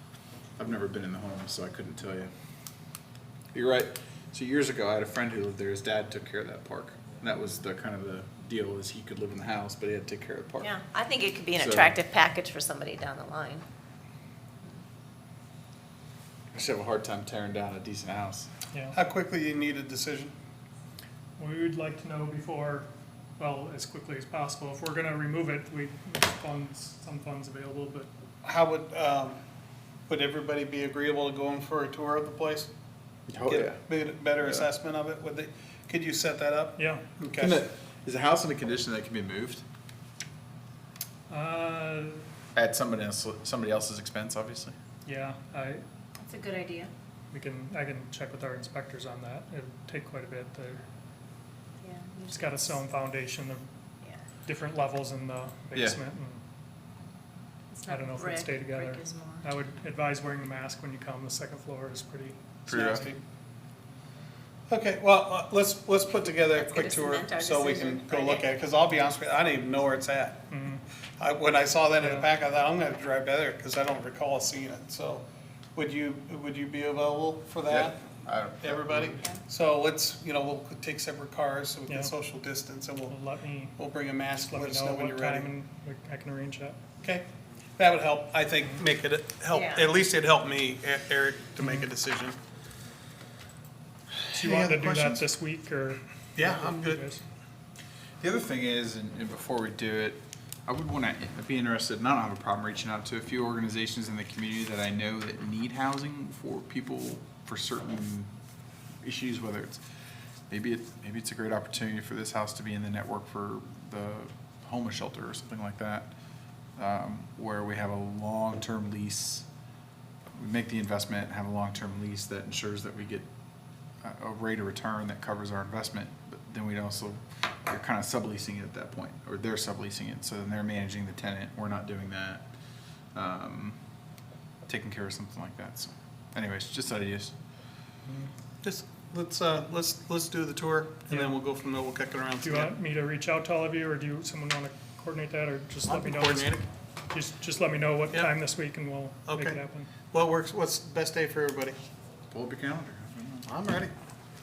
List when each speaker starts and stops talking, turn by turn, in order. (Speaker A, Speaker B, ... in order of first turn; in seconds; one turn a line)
Speaker A: 0.6-2.3
Speaker A: 3.5-10.7
Speaker B: 10.6-13.6
Speaker A: 11.6-11.9
Speaker A: 16.5-18.5
Speaker C: 18.9-20.3
Speaker D: 21.4-22.9
Speaker D: 23.4-28.1
Speaker C: 28.4-29.4
Speaker C: 30.1-32.7
Speaker A: 33.3-33.8
Speaker C: 33.5-37.6
Speaker D: 36.8-37.0
Speaker A: 37.4-39.6
Speaker D: 41.3-42.2
Speaker A: 42.5-44.7
Speaker D: 45.0-45.8
Speaker B: 46.2-46.9
Speaker D: 47.3-50.8
Speaker B: 51.8-52.8
Speaker D: 52.3-53.6
Speaker D: 54.4-56.4
Speaker A: 55.7-56.0
Speaker B: 57.7-59.5
Speaker D: 57.9-63.1
Speaker A: 62.7-63.1
Speaker C: 62.7-63.2
Speaker C: 64.7-70.4
Speaker B: 66.5-68.5
Speaker D: 70.5-70.8
Speaker C: 71.2-75.2
Speaker D: 72.0-72.3
Speaker C: 75.7-83.2
Speaker A: 77.7-79.2
Speaker D: 81.9-82.1
Speaker D: 83.1-83.7
Speaker C: 83.8-85.5
Speaker D: 84.4-86.8
Speaker C: 87.8-92.3
Speaker B: 89.5-89.9
Speaker D: 91.6-91.9
Speaker C: 94.3-95.2
Speaker D: 94.3-97.2
Speaker C: 96.3-97.0
Speaker A: 98.2-108.3
Speaker A: 109.0-109.8
Speaker A: 110.5-116.1
Speaker A: 116.8-119.5
Speaker A: 120.3-123.3
Speaker A: 124.0-132.4
Speaker A: 133.1-133.8
Speaker A: 134.7-137.3
Speaker C: 138.6-142.7
Speaker D: 141.1-141.3
Speaker D: 142.4-146.5
Speaker C: 145.8-146.6
Speaker D: 147.1-149.9
Speaker C: 149.3-149.6
Speaker C: 150.1-151.8
Speaker A: 152.3-153.5
Speaker C: 153.4-153.9